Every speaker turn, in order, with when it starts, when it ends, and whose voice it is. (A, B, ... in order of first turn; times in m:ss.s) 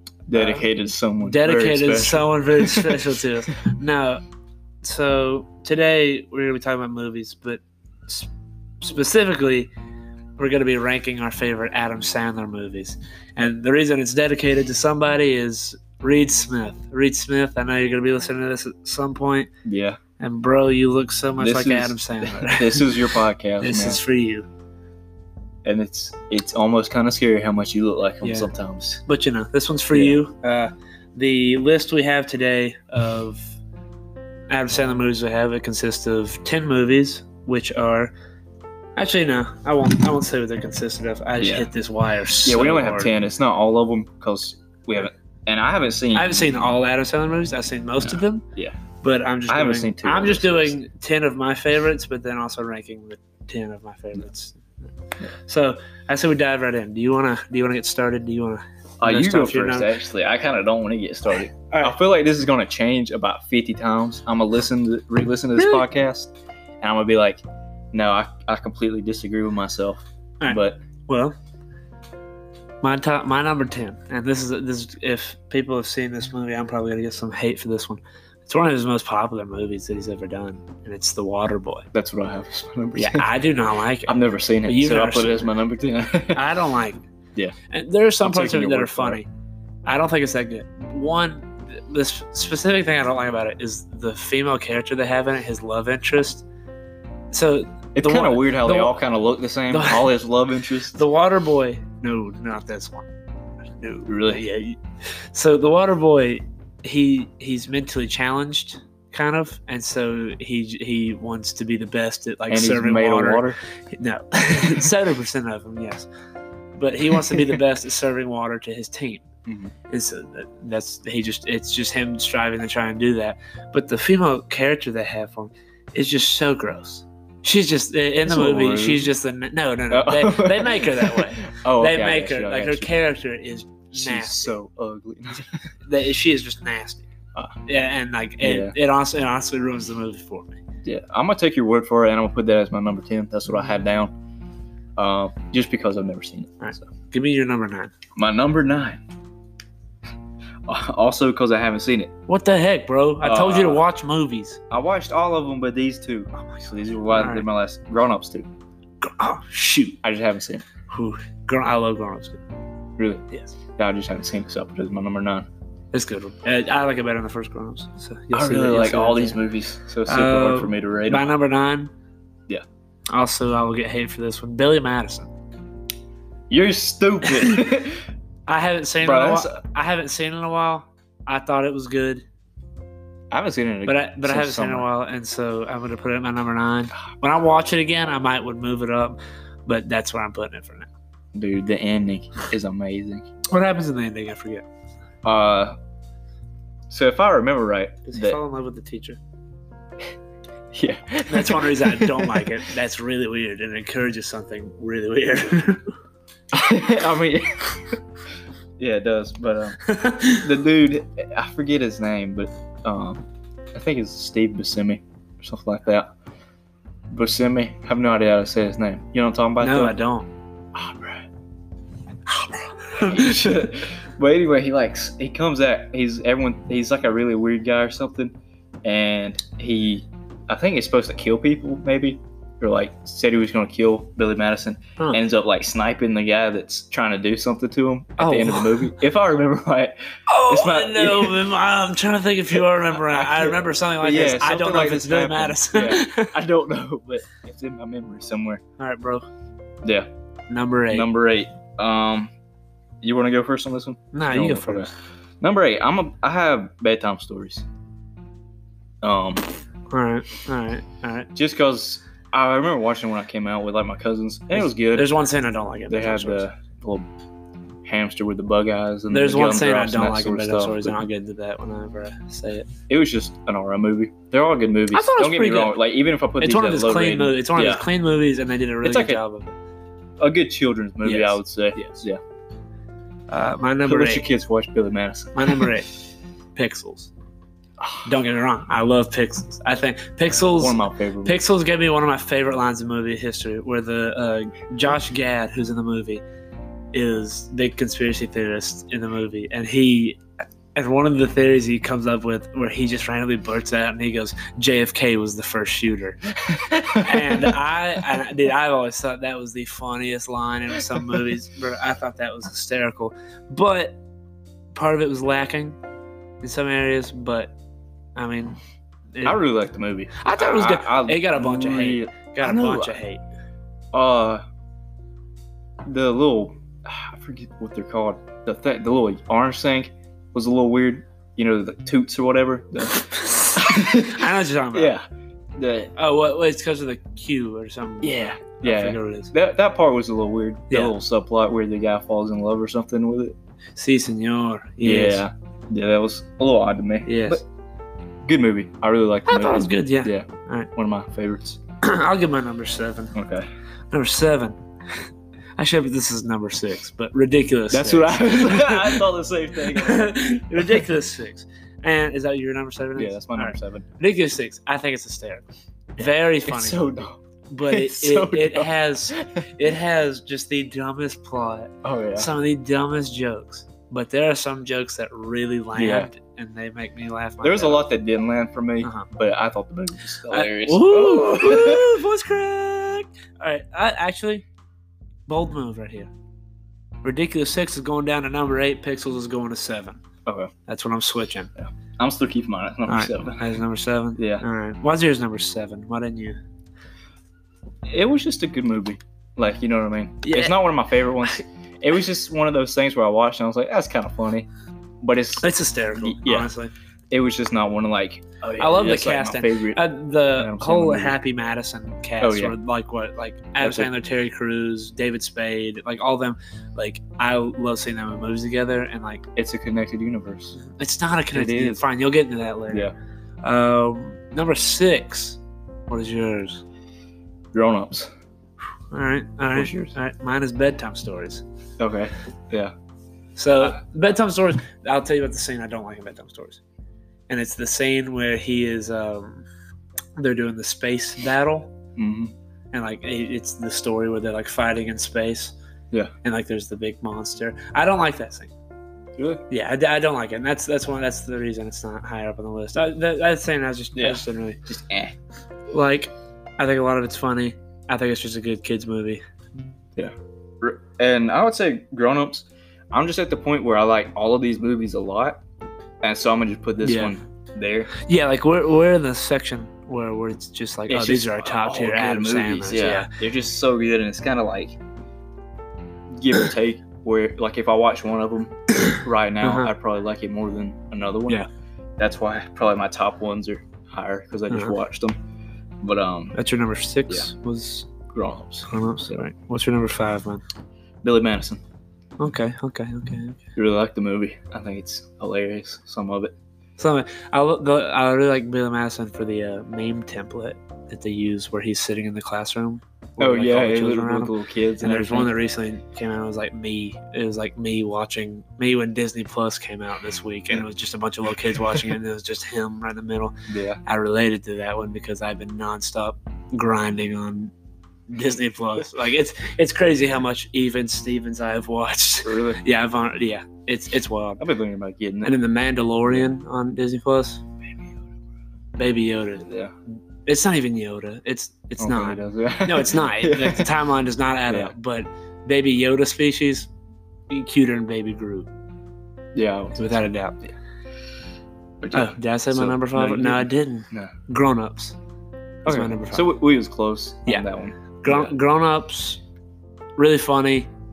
0:00.3-0:03.2 A
0:00.3-0:00.6 B
0:01.2-0:04.2 B
0:04.8-0:08.3 B
0:08.8-0:09.7 B
0:10.4-0:19.5 B
0:19.6-0:20.0 A
0:20.2-0:24.5 B
0:21.4-0:24.0 A
0:25.6-0:29.0 A
0:28.2-0:28.5 B
0:29.1-0:33.6 B
0:29.9-0:30.2 A
0:34.5-0:38.1 B
0:39.0-0:43.1 B
0:41.4-0:41.7 A
0:42.4-0:46.7 A
0:46.1-0:48.4 B
0:48.0-0:48.8 A
0:49.0-0:54.7 B
0:49.5-0:50.8 A
0:55.3-1:00.0 B
0:59.0-1:10.8 A
1:01.7-1:02.0 B
1:05.6-1:05.8 B
1:10.4-1:11.4 B
1:12.8-1:21.9 B
1:21.9-1:23.3 A
1:23.0-1:25.5 B
1:24.1-1:26.4 A
1:26.3-1:27.0 B
1:27.7-1:29.3 B
1:28.2-1:29.2 A
1:29.8-1:36.4 B
1:37.3-1:39.0 B
1:38.0-1:41.0 A
1:39.7-1:40.1 B
1:40.9-1:43.1 B
1:43.7-1:44.8 B
1:44.1-1:44.4 A
1:45.3-1:56.1 B
1:52.5-1:53.6 A
1:56.8-1:59.3 B
1:57.1-1:57.6 A
1:59.5-1:59.7 A
1:59.9-2:14.5 B
2:08.2-2:09.1 A
2:09.9-2:12.9 A
2:13.9-2:15.7 A
2:15.8-2:17.1 B
2:17.6-2:20.6 B
2:18.4-2:18.7 A
2:20.8-2:24.1 A
2:25.0-2:26.9 A
2:26.6-2:27.9 B
2:28.2-2:29.0 A
2:30.7-2:32.1 A
2:32.3-2:34.6 B
2:33.2-2:33.8 A
2:34.7-2:38.5 A
2:37.1-2:37.4 B
2:39.0-2:40.0 B
2:40.0-2:40.6 A
2:40.9-2:42.4 B
2:43.0-2:43.2 A
2:43.8-2:45.5 A
2:45.9-2:49.4 B
2:48.3-2:51.3 A
2:50.1-2:51.9 B
2:53.1-2:55.3 B
2:56.5-2:58.0 A
2:57.3-2:57.6 B
2:58.5-3:02.2 B
2:59.0-2:59.6 A
3:03.3-3:04.9 A
3:03.9-3:10.9 B
3:11.3-3:13.3 A
3:13.5-3:14.6 B
3:15.2-3:15.8 A
3:16.9-3:18.4 A
3:18.1-3:19.2 B
3:20.7-3:22.6 A
3:21.3-3:25.9 B
3:26.5-3:28.0 A
3:28.8-3:29.8 A
3:29.8-3:30.5 B
3:30.3-3:36.1 A
3:37.1-3:40.0 A
3:39.6-3:40.3 B
3:40.7-3:41.3 A
3:42.4-3:43.6 B
3:43.0-4:00.0 A
3:58.2-3:58.9 B
4:00.3-4:06.3 B
4:00.5-4:01.5 A
4:02.9-4:08.6 A
4:08.8-4:09.3 B
4:10.5-4:11.1 B
4:10.9-4:12.3 A
4:13.0-4:17.6 A
4:14.1-4:14.9 B
4:19.0-4:19.4 A
4:19.9-4:21.3 B
4:21.4-4:25.1 A
4:24.6-4:26.4 B
4:25.9-4:27.1 A
4:27.8-4:31.0 A
4:29.1-4:32.7 B
4:32.9-4:37.8 A
4:34.9-4:35.8 B
4:36.4-4:39.6 B
4:38.8-4:39.2 A
4:40.2-4:42.2 A
4:41.0-4:42.0 B
4:43.3-4:44.3 B
4:43.8-4:45.7 A
4:45.4-4:45.9 B
4:46.6-4:47.1 B
4:47.8-4:48.1 A
4:48.0-4:56.2 B
4:50.6-4:51.4 A
4:56.9-5:00.2 B
5:00.8-5:06.3 B
5:06.5-5:07.5 A
5:06.8-5:14.0 B
5:14.7-5:15.8 B
5:16.4-5:17.6 B
5:18.2-5:18.6 B
5:19.1-5:19.4 B
5:19.2-5:23.0 A
5:20.2-5:23.2 B
5:23.9-5:24.4 A
5:25.8-5:35.0 A
5:33.1-5:35.0 B
5:35.6-5:35.9 A
5:36.0-5:39.3 B
5:38.0-5:43.4 A
5:43.8-5:45.2 B
5:44.8-5:47.4 A
5:47.1-5:47.4 B
5:48.2-5:51.6 A
5:49.3-5:50.7 B
5:51.8-5:53.2 B
5:53.1-5:53.5 A
5:53.9-5:54.6 B
5:55.6-5:59.0 B
5:57.7-6:00.9 A
5:59.6-6:05.4 B
6:03.0-6:03.9 A
6:06.0-6:17.9 B
6:06.4-6:09.5 A
6:11.8-6:12.3 A
6:15.8-6:16.1 A
6:17.4-6:22.0 A
6:18.8-6:19.1 B
6:20.3-6:24.4 B
6:25.3-6:26.1 B
6:27.0-6:30.0 B
6:30.3-6:30.5 A
6:30.7-6:31.5 B
6:31.6-6:33.4 A
6:32.9-6:36.4 B
6:34.2-6:34.4 A
6:37.9-6:44.5 A
6:40.2-6:40.6 B
6:45.0-6:46.5 A
6:45.4-6:46.7 B
6:47.1-6:49.8 A
6:48.6-6:59.2 B
6:50.3-6:51.2 A
6:52.2-6:52.6 A
6:53.6-6:53.9 A
6:59.4-7:00.6 A
7:00.6-7:02.9 B
7:01.3-7:01.8 A
7:03.4-7:06.6 B
7:07.5-7:08.1 A
7:08.9-7:11.4 B
7:09.5-7:09.9 A
7:11.8-7:12.7 A
7:13.4-7:16.6 B
7:17.3-7:19.4 B
7:20.2-7:21.7 B
7:22.0-7:22.3 A
7:22.7-7:25.5 B
7:26.2-7:28.5 B
7:29.2-7:29.4 A
7:29.5-7:34.6 B
7:34.0-7:35.2 A
7:35.7-7:39.2 B
7:40.0-7:45.4 A
7:46.0-7:47.9 A
7:46.8-7:47.2 B
7:48.0-7:53.1 B
7:50.9-7:54.8 A
7:56.1-8:01.4 A
7:58.9-7:59.7 B
8:02.0-8:05.2 A
8:04.5-8:04.8 B
8:05.8-8:06.4 A
8:06.3-8:07.9 B
8:08.1-8:08.7 A
8:08.7-8:10.4 B
8:11.0-8:11.6 A
8:12.2-8:13.4 B
8:13.6-8:16.4 A
8:16.8-8:37.5 B
8:23.2-8:25.3 A
8:33.5-8:33.8 A
8:38.1-8:44.4 B
8:42.2-8:42.6 A
8:44.4-8:45.4 A
8:45.2-8:47.4 B
8:47.7-8:48.0 A
8:48.8-8:49.5 B
8:49.5-8:49.7 A
8:50.2-8:56.7 B
8:51.8-8:53.7 A
8:54.5-8:54.7 A
8:57.3-8:58.5 B
8:59.4-9:00.5 A
8:59.8-9:00.4 B
9:01.8-9:04.1 A
9:01.9-9:05.0 B
9:05.6-9:06.3 B
9:05.6-9:08.4 A
9:08.0-9:09.2 B
9:10.0-9:10.7 B